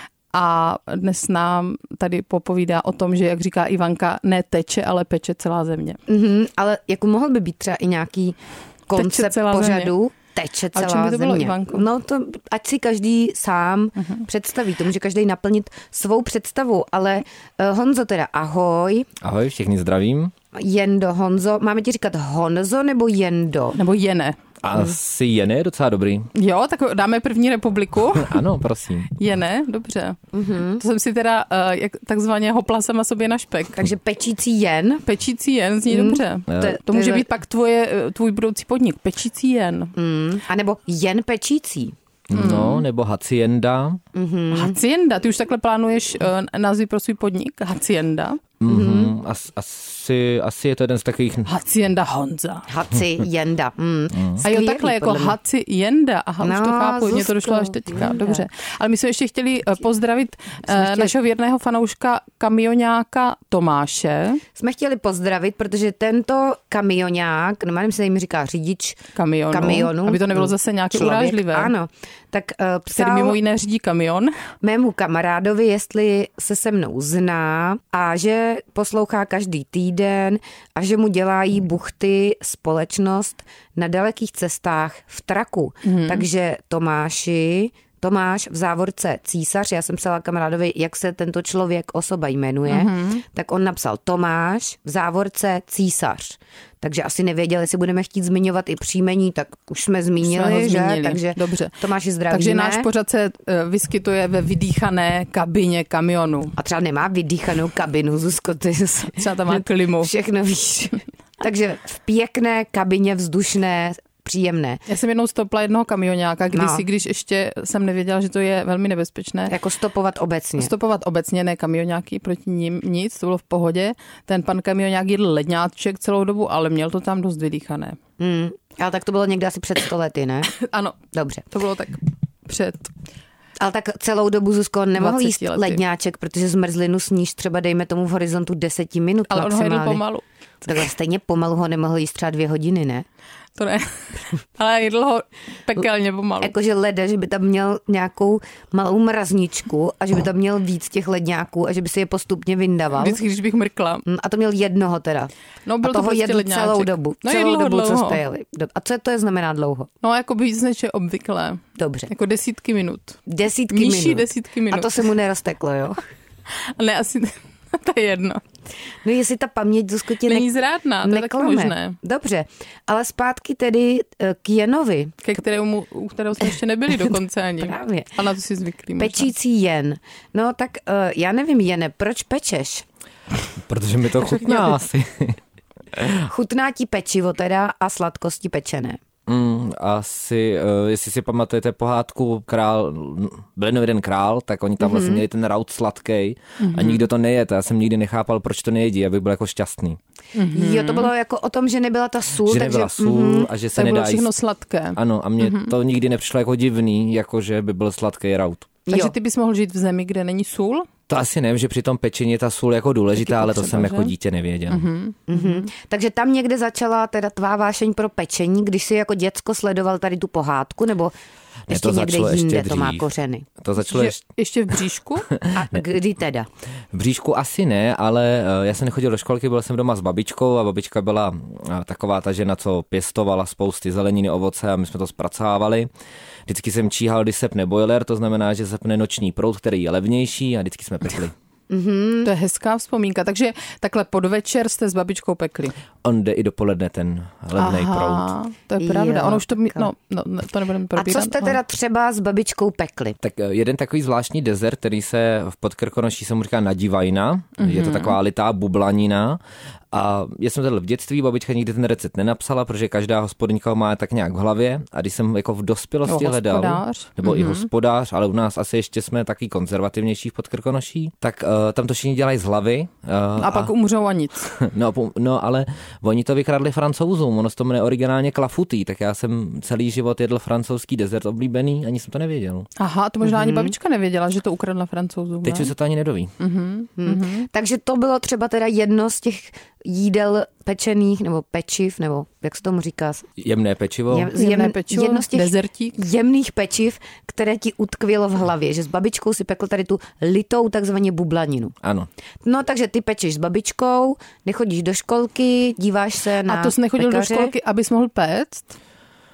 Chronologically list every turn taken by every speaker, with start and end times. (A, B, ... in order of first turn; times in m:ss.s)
0:00.3-0:06.0 A
0:06.1-0:08.4 B
0:08.9-0:19.1 B
0:08.9-0:09.9 A
0:10.7-0:11.8 A
0:19.2-0:20.3 C
0:20.5-0:23.8 B
0:23.8-0:24.4 A
0:24.6-0:26.3 C
0:26.4-0:28.4 A
0:28.1-0:29.1 C
0:29.1-0:30.2 A
0:30.3-0:30.8 B
0:30.8-0:33.8 A
0:33.8-0:35.0 B
0:35.0-0:39.9 A
0:35.9-0:37.2 B
0:36.5-0:36.8 C
0:40.0-0:42.0 B
0:42.3-0:44.0 C
0:42.3-0:42.8 A
0:44.1-0:44.8 B
0:44.5-0:48.4 A
0:48.6-0:51.5 C
0:48.7-0:49.1 B
0:51.4-0:52.7 A
0:52.7-0:55.4 B
0:54.4-1:04.4 A
0:56.4-0:58.4 B
1:00.7-1:01.1 B
1:04.6-1:09.0 B
1:09.2-1:11.7 A
1:09.5-1:13.4 B
1:12.9-1:14.3 A
1:14.6-1:42.9 B
1:25.8-1:26.2 A
1:32.7-1:33.2 A
1:40.2-1:41.8 A
1:42.3-1:46.6 A
1:46.6-1:54.8 B
1:49.1-1:50.1 A
1:54.9-1:59.5 A
1:56.5-1:56.8 B
1:59.5-2:00.7 B
2:00.6-2:08.0 A
2:08.2-2:10.5 B
2:10.5-2:12.9 A
2:11.1-2:11.4 B
2:13.6-2:20.0 B
2:15.0-2:15.8 A
2:19.3-2:20.2 A
2:20.6-2:23.0 B
2:23.6-2:26.5 A
2:26.4-2:33.2 B
2:33.0-2:34.0 A
2:34.0-2:35.3 B
2:35.7-2:38.2 A
2:35.8-2:39.9 B
2:40.0-2:43.2 A
2:41.8-2:42.1 B
2:43.3-2:46.0 B
2:43.7-2:45.0 A
2:46.5-2:48.4 A
2:49.0-2:50.5 B
2:50.2-2:52.0 A
2:51.0-2:55.2 B
2:55.2-2:59.3 A
2:57.6-2:58.2 B
2:59.0-3:02.8 B
3:03.7-3:05.4 C
3:05.9-3:06.3 C
3:06.2-3:09.0 B
3:09.3-3:20.0 C
3:14.8-3:15.2 B
3:16.6-3:17.0 A
3:20.3-3:21.1 A
3:20.5-3:23.5 B
3:22.4-3:24.3 C
3:23.7-3:25.7 A
3:24.9-3:28.7 C
3:28.9-3:29.1 B
3:28.9-3:30.9 A
3:31.1-3:34.8 C
3:33.2-3:34.1 A
3:34.7-3:35.5 A
3:35.3-3:41.1 B
3:41.7-3:43.1 C
3:41.7-3:43.5 B
3:43.6-3:44.2 C
3:43.8-3:45.3 A
3:45.3-3:45.6 C
3:45.5-3:46.5 B
3:46.9-3:55.9 C
3:56.5-4:01.3 C
4:01.7-4:02.3 B
4:02.2-4:05.8 A
4:06.0-4:08.3 C
4:07.6-4:11.6 A
4:08.8-4:09.9 B
4:10.9-4:13.2 B
4:13.2-4:19.4 C
4:17.6-4:18.2 A
4:19.9-4:33.7 C
4:26.1-4:27.7 A
4:33.4-4:34.5 A
4:34.5-4:42.7 C
4:42.8-4:45.7 A
4:43.2-4:43.7 B
4:45.4-4:46.3 C
4:46.4-4:47.5 A
4:47.0-4:53.3 B
4:53.4-4:54.3 C
4:54.1-5:01.7 B
4:54.4-4:56.0 A
5:01.8-5:02.1 C
5:02.4-5:07.5 B
5:06.5-5:08.8 A